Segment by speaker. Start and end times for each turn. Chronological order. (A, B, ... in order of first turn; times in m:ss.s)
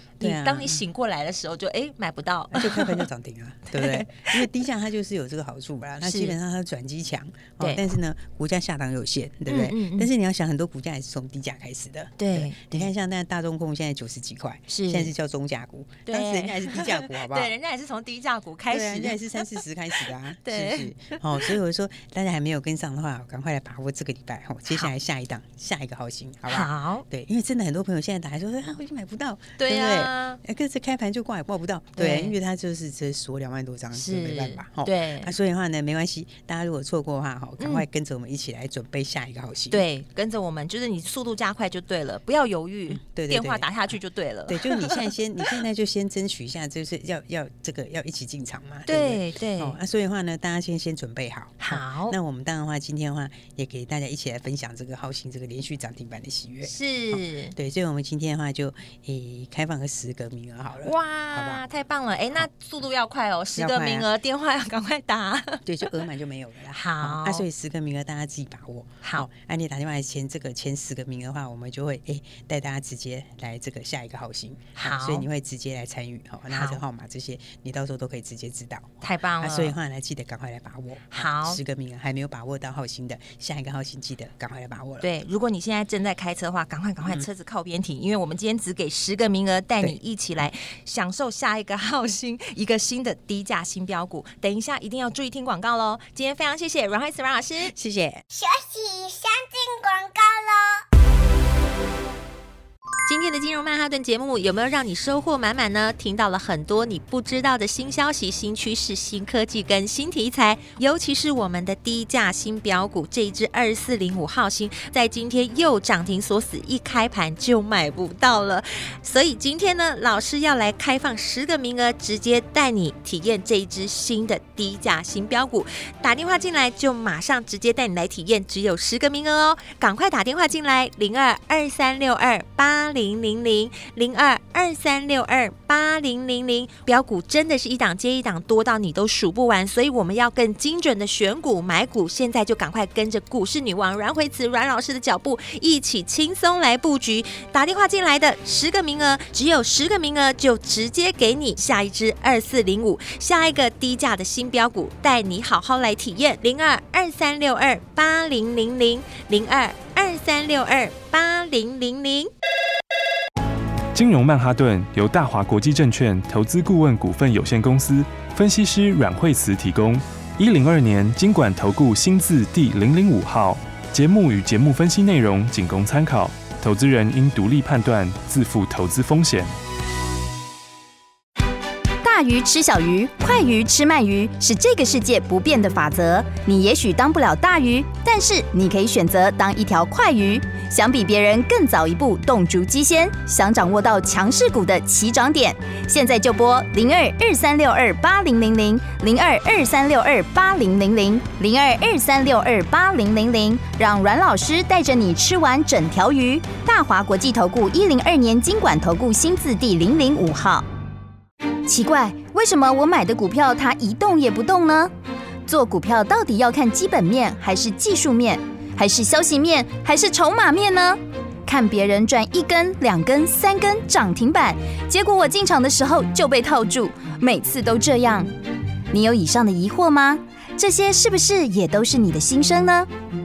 0:00.2-0:00.8 A
0:00.2-0:03.0 B
0:02.5-0:17.5 A
0:03.7-0:04.4 B
0:06.0-0:06.4 B
0:09.5-0:10.1 B
0:12.2-0:12.9 B
0:14.7-0:15.1 B
0:16.0-0:21.6 B
0:18.7-0:39.8 A
0:26.5-0:27.0 B
0:29.6-0:30.4 B
0:32.0-0:32.4 B
0:33.9-0:35.3 B
0:37.6-0:37.8 B
0:39.7-0:45.6 B
0:42.9-0:43.7 A
0:44.5-1:01.6 A
0:48.8-0:49.8 B
0:51.6-0:52.2 B
0:56.6-0:57.5 B
1:00.8-1:05.6 B
1:03.5-1:04.1 A
1:05.6-1:25.1 A
1:06.7-1:07.4 B
1:09.0-1:09.3 B
1:14.8-1:15.3 B
1:16.5-1:16.8 B
1:19.0-1:19.8 B
1:21.1-1:21.6 B
1:25.0-1:37.7 B
1:37.7-1:38.2 A
1:38.3-1:40.8 C
1:43.0-2:42.3 B
2:43.9-2:59.5 D
3:02.0-3:30.6 E
3:31.7-3:34.9 E
3:35.5-3:48.3 E
3:48.9-3:52.9 E